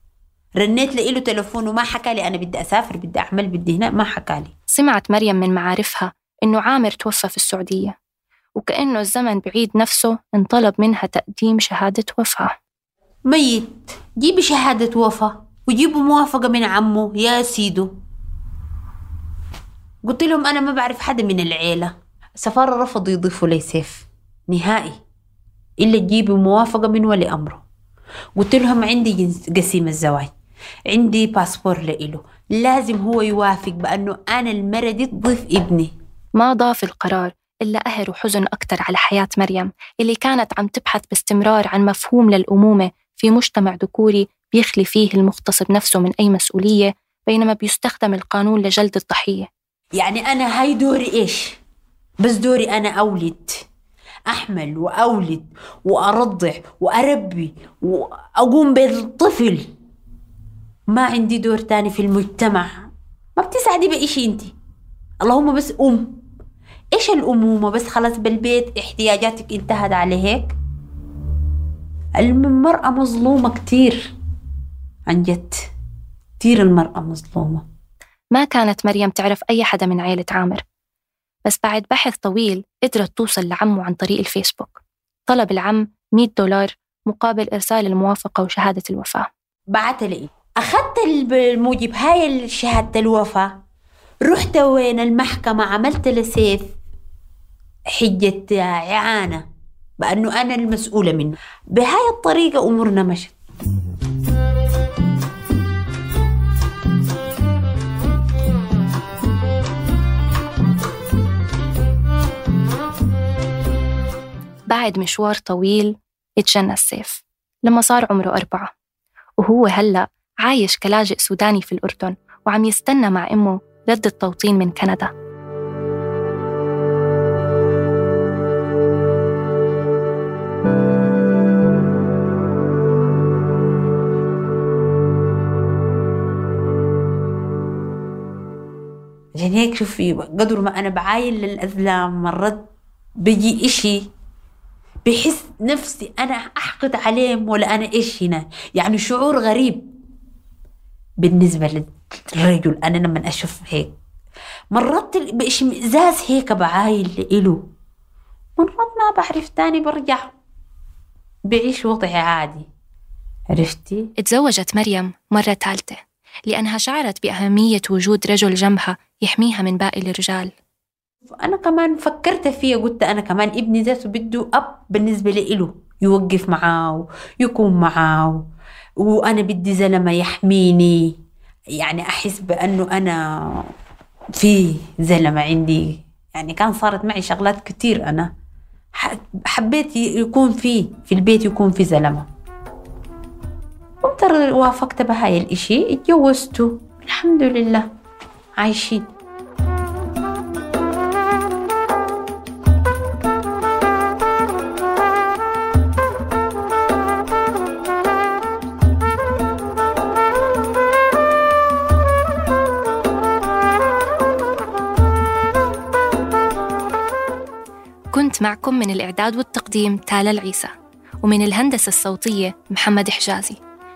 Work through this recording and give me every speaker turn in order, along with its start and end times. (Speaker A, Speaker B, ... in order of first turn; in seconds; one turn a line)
Speaker A: 0.6-4.5
Speaker B: 4.7-7.9
Speaker B: 8.6-12.5
Speaker A: 13.3-17.9
Speaker A: 20.1-25.0
Speaker A: 25.8-27.7
Speaker A: 28.4-30.3
Speaker A: 30.9-35.9
Speaker B: 36.4-49.5
Speaker A: 50.0-51.6
Speaker A: 52.2-53.6
Speaker A: 54.3-59.7
Speaker A: 60.9-64.5
Speaker A: 65.2-66.1
Speaker A: 66.9-70.5
Speaker A: 72.2-74.1
Speaker A: 75.1-75.7
Speaker A: 76.4-77.6
Speaker B: 78.3-80.6
Speaker B: 81.5-89.3
Speaker A: 89.7-93.5
Speaker A: 94.3-96.6
Speaker A: 98.0-99.4
Speaker A: 100.0-103.3
Speaker B: 114.7-118.7
Speaker B: 119.4-125.1
Speaker A: 139.4-142.6
Speaker A: 143.2-144.0
Speaker A: 145.1-149.9
Speaker A: 151.2-153.9
Speaker A: 154.7-157.6
Speaker A: 158.6-160.3
Speaker A: 161.5-162.7
Speaker A: 163.5-164.1
Speaker B: 164.2-170.5
Speaker A: 171.3-178.4
Speaker A: 179.0-181.0
Speaker A: 181.8-183.7
Speaker A: 184.4-188.3
Speaker A: 188.9-192.3
Speaker A: 194.0-197.9
Speaker A: 198.6-199.0
Speaker B: 218.1-220.7
Speaker B: 221.2-223.6